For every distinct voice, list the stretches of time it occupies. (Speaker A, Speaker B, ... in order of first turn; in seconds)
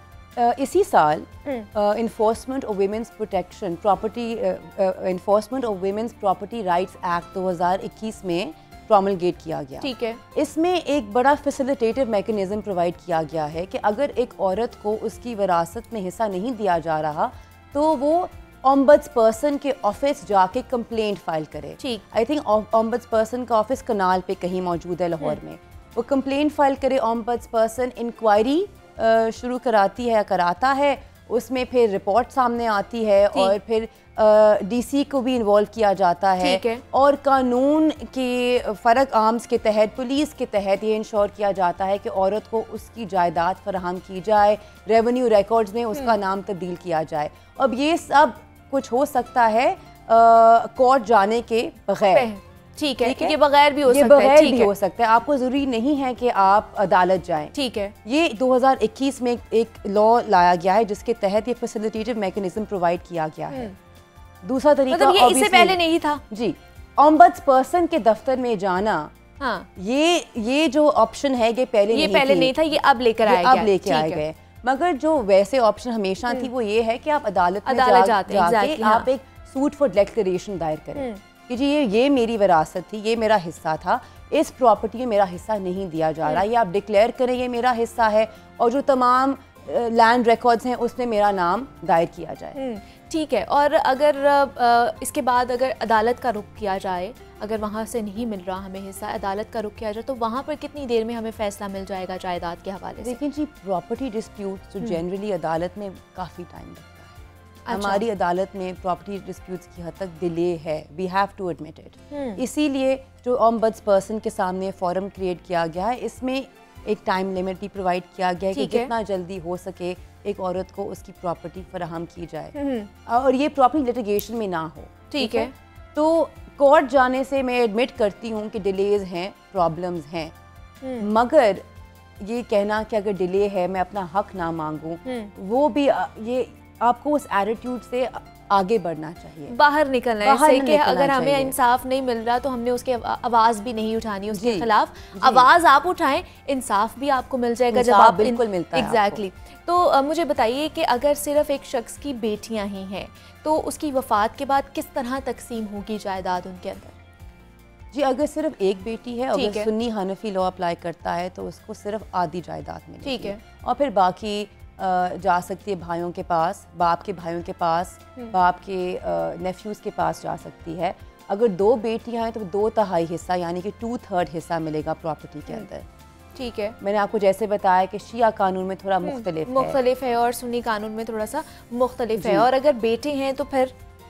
Speaker A: 0.4-52.3, 53.0-63.7, 64.4-69.1, 69.8-72.6, 73.2-92.6, 103.0-107.2, 107.7-122.5, 123.1-130.3, 131.0-131.6, 132.2-139.5, 140.2-141.6, 144.3-145.5, 147.7-149.2, 157.9-175.9, 176.8-179.8, 182.2-182.5
Speaker B: 9.8-10.2, 36.4-36.8, 52.1-54.7, 57.5-57.9, 64.9-66.2, 69.4-69.7, 71.9-74.2, 77.7-79.1, 81.0-81.2, 92.6-103.2, 107.7-108.0, 112.1-112.4, 118.5-118.9, 122.5-122.9, 125.1-125.5, 130.8-131.1, 135.1-135.3, 139.5-156.9, 159.3-159.7, 163.0-163.4, 176.4-176.8, 179.0-183.7